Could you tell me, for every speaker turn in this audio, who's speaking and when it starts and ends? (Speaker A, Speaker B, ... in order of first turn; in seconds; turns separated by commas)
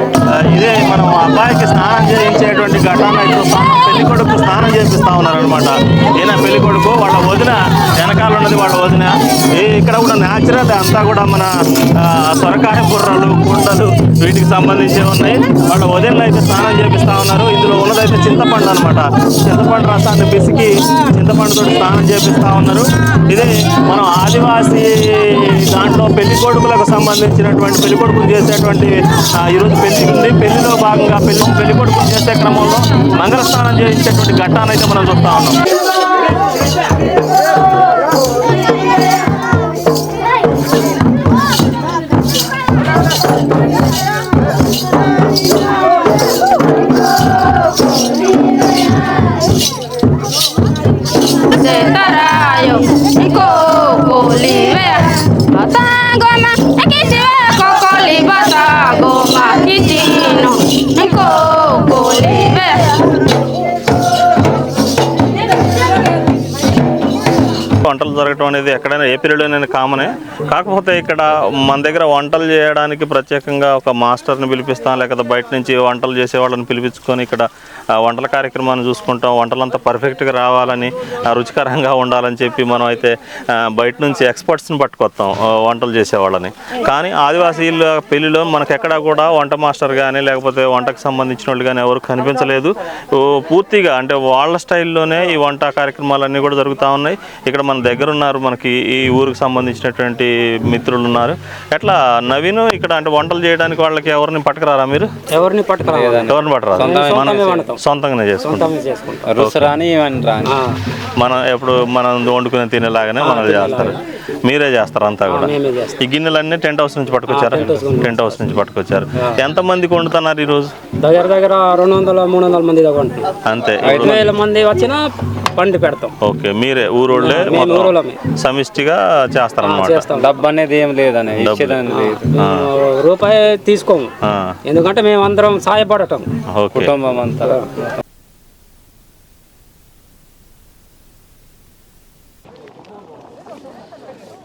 Speaker A: 0.3-35.6, Speaker B: 51.5-62.9, Speaker A: 67.8-77.5, Speaker A: 78.0-105.1, Speaker C: 105.3-106.2, Speaker D: 105.8-107.7, Speaker A: 106.3-108.7, Speaker C: 106.8-107.7, Speaker B: 106.9-107.5, Speaker C: 108.6-109.2, Speaker D: 109.2-110.6, Speaker A: 109.4-109.7, Speaker A: 111.2-120.7, Speaker C: 113.2-114.0, Speaker B: 113.4-113.9, Speaker C: 115.4-115.9, Speaker C: 117.3-118.1, Speaker B: 117.6-117.8, Speaker C: 121.0-123.2, Speaker A: 123.5-124.4, Speaker D: 123.8-124.2, Speaker C: 124.0-125.0, Speaker C: 125.6-126.1, Speaker A: 126.2-130.1, Speaker C: 127.2-128.2, Speaker B: 127.4-128.1, Speaker C: 129.8-130.3, Speaker D: 130.1-132.3, Speaker A: 131.4-132.7, Speaker C: 132.5-134.1, Speaker A: 134.2-134.5, Speaker C: 134.7-136.2, Speaker A: 136.5-136.9, Speaker D: 136.7-138.0